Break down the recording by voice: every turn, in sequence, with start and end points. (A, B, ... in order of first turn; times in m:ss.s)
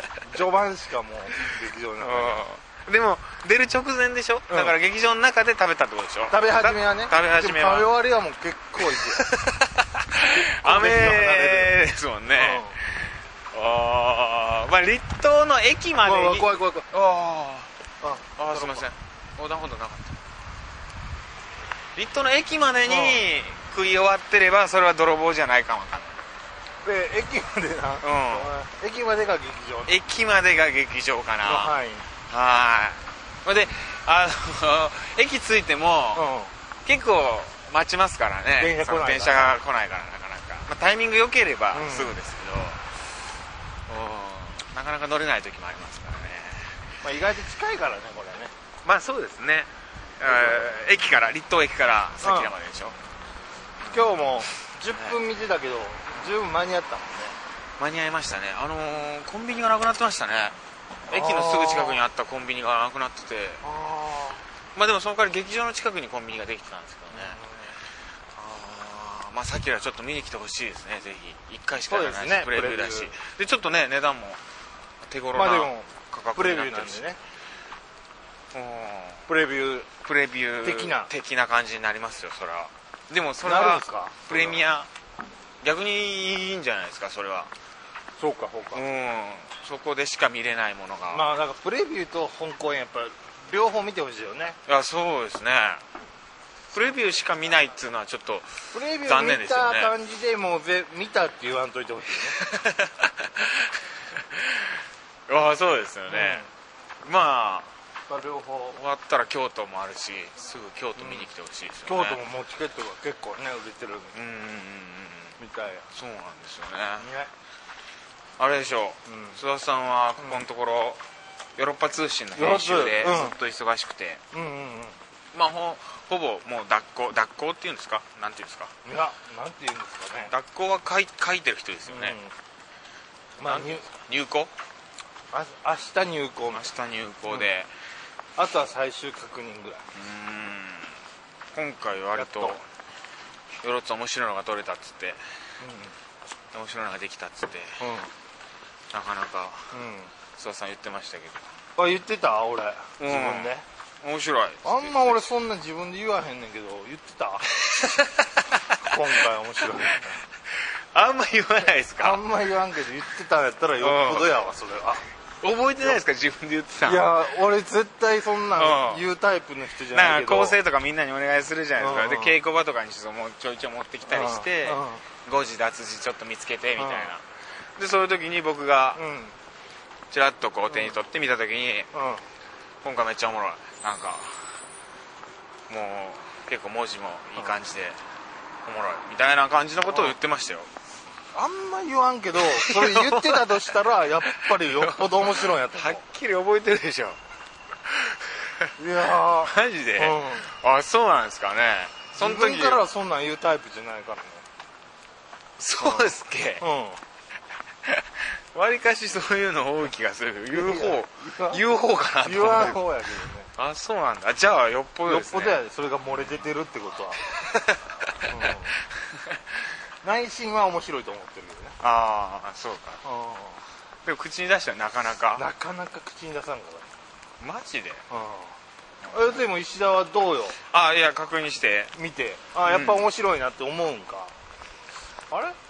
0:00.2-0:02.5 A
0:02.0-0:07.9 B
0:04.5-0:04.8 A
0:06.3-0:09.3 A
0:09.2-0:17.7 B
0:10.2-0:11.8 A
0:12.3-0:12.8 A
0:16.0-0:16.9 A
0:18.0-0:18.9 A
0:18.4-0:20.2 B
0:22.0-0:26.2 B
0:22.8-0:23.3 A
0:26.8-0:29.9 A
0:28.0-0:28.5 B
0:29.9-0:31.8 B
0:31.4-0:32.1 A
0:32.3-0:36.3 B
0:36.1-0:36.5 A
0:36.8-0:42.8 B
0:38.6-0:39.6 A
0:41.7-0:42.2 A
0:43.9-0:46.9 B
0:47.0-0:48.5 A
0:48.8-0:53.0 B
0:50.2-0:50.7 A
0:52.2-0:52.6 A
0:53.8-0:54.4 B
0:53.9-0:57.4 A
0:57.8-1:00.6 B
1:01.1-1:03.6 B
1:01.1-1:02.1 A
1:03.6-1:04.4 A
1:04.8-1:07.4 B
1:07.1-1:07.8 A
1:08.4-1:14.4 B
1:11.9-1:13.2 A
1:15.0-1:17.1 B
1:15.3-1:17.2 A
1:18.5-1:19.3 B
1:19.3-1:19.9 A
1:20.0-1:24.9 B
1:20.6-1:21.1 A
1:23.4-1:24.7 A
1:25.6-1:27.5 B
1:28.2-1:28.8 A
1:28.7-1:31.3 B
1:31.1-1:34.6 A
1:34.7-1:35.8 B
1:36.7-1:39.9 B
1:38.7-1:42.4 A
1:42.4-1:43.7 B
1:44.3-1:44.6 B
1:45.3-1:46.5 B
1:46.1-1:46.5 A
1:47.0-1:47.7 B
1:48.1-1:48.8 A
1:48.7-1:52.2 B
1:51.0-1:51.3 A
1:51.8-1:54.2 A
1:54.1-1:55.4 B
1:55.4-1:55.9 A
1:55.9-1:57.1 B
1:57.0-1:57.3 A
1:58.4-2:01.0 B
1:59.1-1:59.4 A
2:01.6-2:04.2 B
2:02.3-2:03.4 A
2:04.3-2:05.0 A
2:05.3-2:08.7 B
2:08.8-2:10.3 A
2:10.3-2:12.2 B
2:11.9-2:12.3 A
2:13.4-2:13.9 A
2:13.4-2:14.5 B
2:15.3-2:16.6 A
2:16.5-2:17.7 B
2:18.4-2:19.9 A
2:19.9-2:20.9 B
2:21.5-2:22.6 B
2:22.1-2:22.6 A
2:23.6-2:25.2 B
2:25.6-2:26.0 A
2:26.5-2:27.8 B
2:27.8-2:28.1 A
2:28.9-2:29.8 B
2:29.7-2:30.1 A
2:30.3-2:31.5 B
2:31.8-2:33.6 A
2:33.0-2:35.3 B
2:34.6-2:37.4 A
2:37.7-2:38.4 B
2:38.8-2:40.2 A
2:40.9-2:42.2 B
2:42.0-2:45.0 A
2:43.8-2:44.4 B
2:45.4-2:47.1 B
2:46.8-2:50.6 A
2:48.6-2:49.0 B
2:49.9-2:57.2 B
2:51.8-2:52.4 A
2:54.0-2:55.0 A
2:56.8-2:57.2 A
2:57.8-2:59.0 B
2:58.9-2:59.4 A
3:00.1-3:01.9 B
3:00.7-3:01.0 A
3:01.9-3:02.2 A
3:02.8-3:04.5 B
3:05.7-3:08.0 B
3:08.6-3:10.7 B
3:09.8-3:10.2 A
3:11.3-3:16.1 A
3:12.4-3:13.6 B
3:14.3-3:17.2 B
3:18.0-3:18.7 B
3:18.8-3:20.5 A
3:19.4-3:22.8 B
3:22.1-3:24.4 A
3:25.6-3:26.7 B
3:25.8-3:27.0 A
3:28.5-3:32.8 B
3:30.5-3:31.6 A
3:32.2-3:33.5 A
3:33.6-3:35.6 B
3:35.1-3:37.2 A
3:37.4-3:37.8 B
3:38.3-3:38.8 A
3:40.0-3:41.8 A
3:41.8-3:43.0 B
3:43.0-3:43.6 A
3:44.0-3:45.4 B
3:45.4-3:46.9 A
3:47.4-3:48.0 B
3:48.1-3:48.6 A
3:49.1-3:49.4 B
3:49.1-3:50.6 A
3:50.7-3:52.0 B
3:52.0-3:54.3 A
3:52.6-3:53.1 B
3:55.3-3:55.6 A